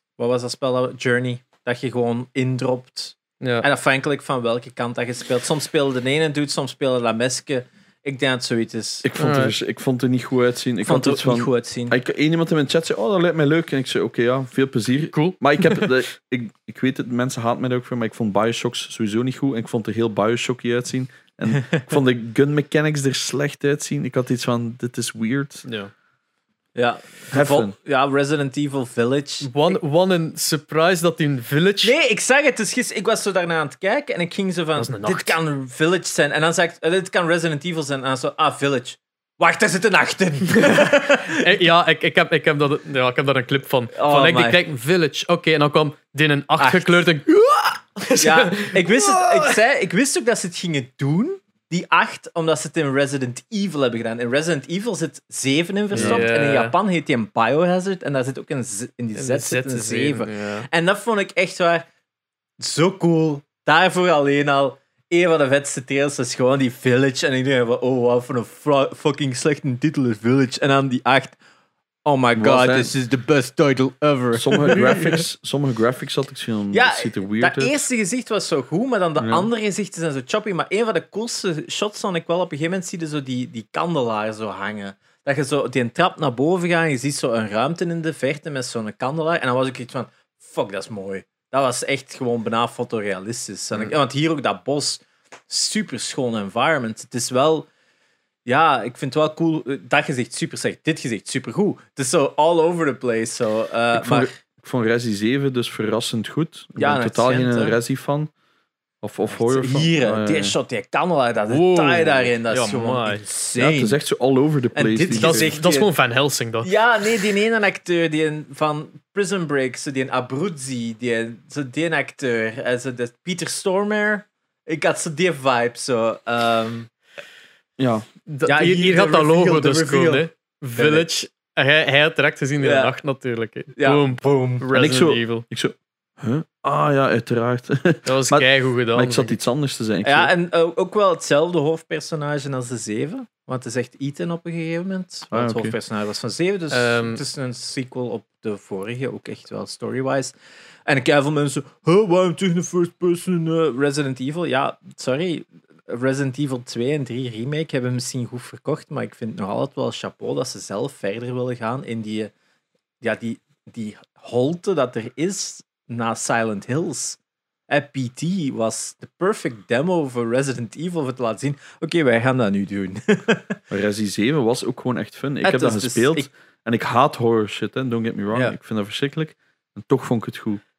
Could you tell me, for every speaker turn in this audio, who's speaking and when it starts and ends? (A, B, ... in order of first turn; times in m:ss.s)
0:00.2-0:09.1 A
0:03.4-0:03.7 B
0:09.0-0:25.6 C
0:09.2-0:09.6 B
0:10.8-0:12.0 A
0:15.1-0:15.9 B
0:25.7-0:25.9 B
0:26.8-0:29.7 A
0:27.3-0:27.8 C
0:29.4-0:31.9 B
0:31.8-0:41.6 A
0:34.8-0:35.4 B
0:40.6-0:48.8 B
0:44.0-0:44.6 A
0:46.6-0:47.1 A
0:48.2-1:01.9 A
0:55.9-0:56.3 C
0:55.9-0:56.8 B
0:59.2-1:00.7 B
1:02.6-1:11.4 A
1:12.0-1:15.2 A
1:12.4-1:12.9 C
1:14.3-1:17.7 C
1:16.7-1:37.7 A
1:19.2-1:19.5 C
1:38.5-1:44.3 A
1:43.9-1:48.3 C
1:46.8-1:47.8 A
1:49.0-1:50.6 C
1:49.3-1:54.0 A
1:51.5-1:53.2 B
1:53.6-1:55.5 C
1:54.7-1:55.9 A
1:55.2-1:56.7 B
1:56.6-2:06.9 A
2:07.8-2:08.1 C
2:08.3-2:15.4 B
2:08.5-2:11.1 A
2:12.6-2:12.9 A
2:13.8-2:14.6 A
2:14.7-2:20.3 C
2:18.1-2:19.3 B
2:20.0-2:30.3 A
2:25.3-2:25.7 C
2:26.7-2:27.2 B
2:30.9-2:42.3 A
2:43.0-2:47.2 A
2:47.7-2:53.6 A
2:53.7-3:00.6 C
2:55.4-2:56.3 A